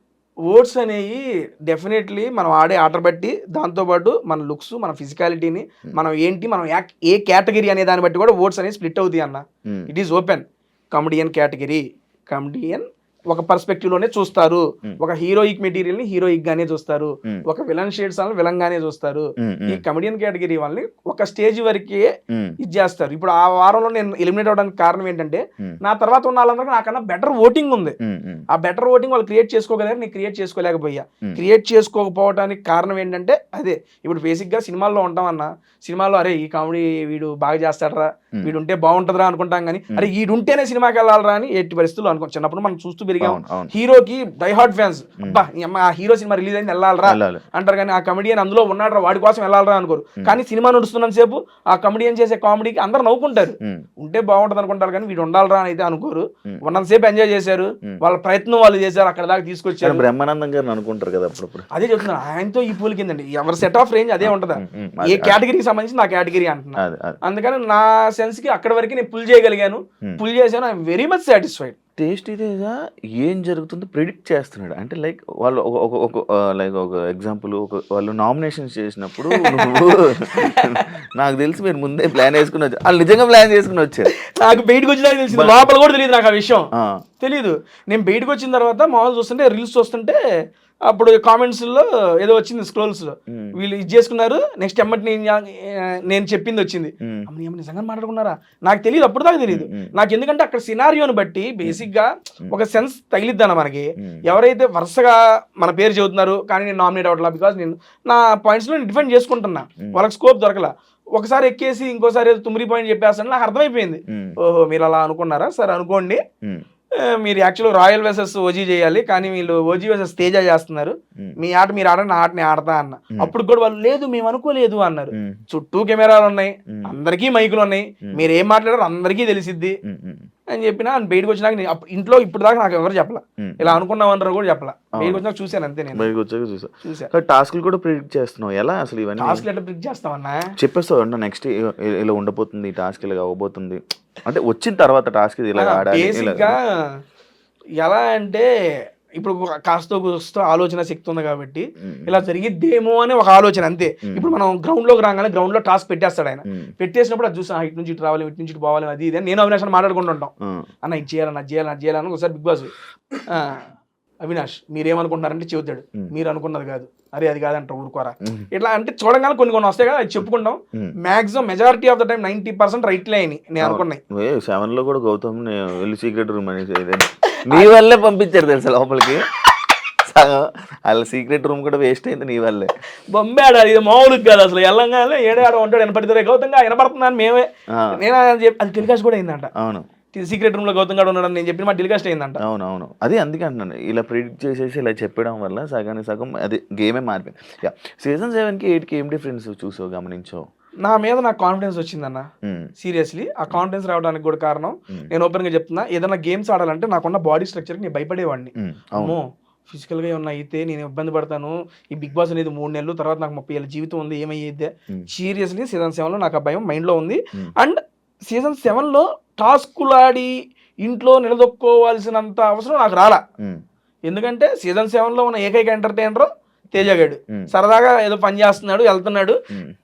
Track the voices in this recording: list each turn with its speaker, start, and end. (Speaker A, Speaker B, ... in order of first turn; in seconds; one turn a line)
Speaker A: 0.5-22.1
Speaker B: 19.4-19.8
Speaker B: 22.3-22.6
Speaker A: 22.6-28.0
Speaker B: 28.0-28.4
Speaker A: 28.5-60.0
Speaker B: 43.2-43.7
Speaker B: 47.1-47.4
Speaker B: 59.8-61.7
Speaker A: 61.7-71.8
Speaker B: 64.2-65.4
Speaker B: 66.8-67.2
Speaker B: 72.0-84.1
Speaker A: 79.3-80.9
Speaker A: 84.4-86.7
Speaker A: 87.2-90.2
Speaker A: 90.9-116.2
Speaker B: 99.5-99.9
Speaker B: 114.1-114.4
Speaker A: 117.0-129.8
Speaker B: 129.9-130.3
Speaker A: 130.5-136.1
Speaker B: 133.4-133.8
Speaker B: 135.9-139.4
Speaker A: 136.8-137.1
Speaker A: 139.2-140.5
Speaker B: 140.6-146.6
Speaker A: 145.6-146.7
Speaker A: 147.8-148.5
Speaker A: 149.2-160.3
Speaker B: 151.8-152.1
Speaker A: 160.8-162.7
Speaker A: 163.3-163.7
Speaker A: 164.2-174.0
Speaker B: 173.6-179.2
Speaker A: 177.4-177.7
Speaker B: 180.0-182.7
Speaker A: 183.1-189.5
Speaker B: 189.6-189.9
Speaker A: 190.1-192.4
Speaker B: 192.4-200.4
Speaker A: 200.8-220.3
Speaker B: 202.4-202.7
Speaker B: 208.6-209.2
Speaker A: 220.8-223.2
Speaker A: 224.1-229.4